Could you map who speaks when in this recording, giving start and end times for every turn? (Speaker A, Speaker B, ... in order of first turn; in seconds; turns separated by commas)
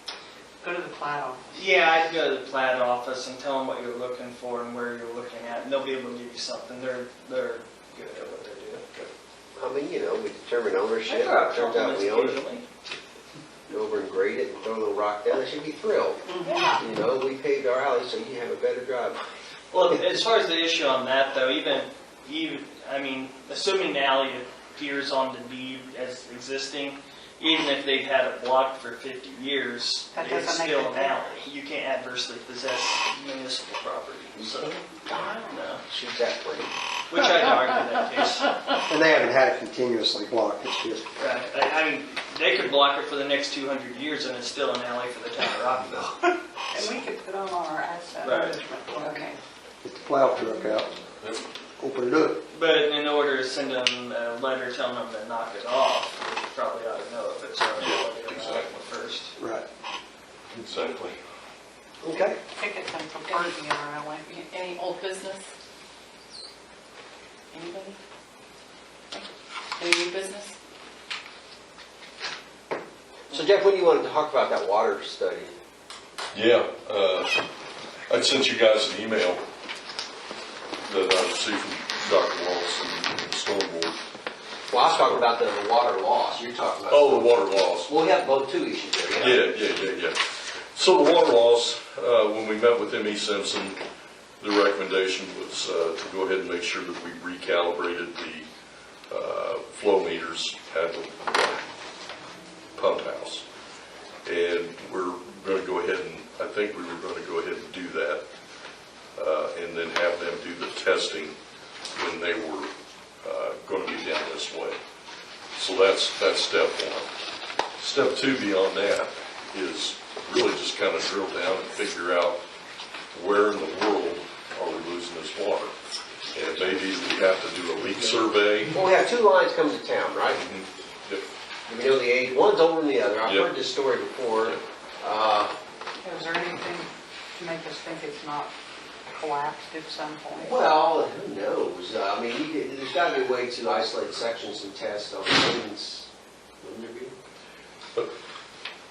Speaker A: 0.6-1.5, Speaker B: 1.5-8.8, Speaker C: 9.6-12.4, Speaker B: 11.1-12.7, Speaker C: 13.7-16.2, Speaker B: 16.5-16.8, Speaker C: 16.8-19.2, Speaker B: 19.7-35.8, Speaker A: 30.1-31.5, Speaker C: 34.4-36.7, Speaker B: 37.1-38.5, Speaker D: 38.9-41.0, Speaker B: 41.2-46.4, Speaker A: 46.7-49.3, Speaker B: 48.2-48.6, Speaker E: 49.0-49.4, Speaker D: 49.8-50.9, Speaker D: 51.8-52.4, Speaker B: 52.5-59.3, Speaker F: 57.8-58.7, Speaker D: 59.4-59.7, Speaker F: 60.5-61.2, Speaker D: 62.0-62.4, Speaker A: 62.5-64.4, Speaker E: 63.2-63.6, Speaker E: 64.2-65.5, Speaker E: 67.5-68.0, Speaker E: 69.1-70.5, Speaker C: 73.3-75.5, Speaker F: 76.3-77.4, Speaker F: 78.1-79.4, Speaker F: 80.8-83.9, Speaker C: 84.7-89.5, Speaker F: 84.8-85.3, Speaker F: 86.9-87.9, Speaker F: 89.2-90.2, Speaker F: 90.7-93.8, Speaker F: 94.4-98.5, Speaker F: 99.1-101.6, Speaker F: 102.8-103.4, Speaker F: 104.2-108.2, Speaker F: 109.2-111.4, Speaker F: 112.0-112.7, Speaker F: 113.2-114.8, Speaker F: 115.6-117.1, Speaker F: 117.8-122.4, Speaker F: 123.1-125.7, Speaker F: 126.3-128.8, Speaker C: 128.7-130.4, Speaker F: 130.3-131.3, Speaker C: 131.7-135.5, Speaker A: 136.0-138.5, Speaker A: 139.1-140.6, Speaker C: 140.4-146.1, Speaker C: 146.6-147.1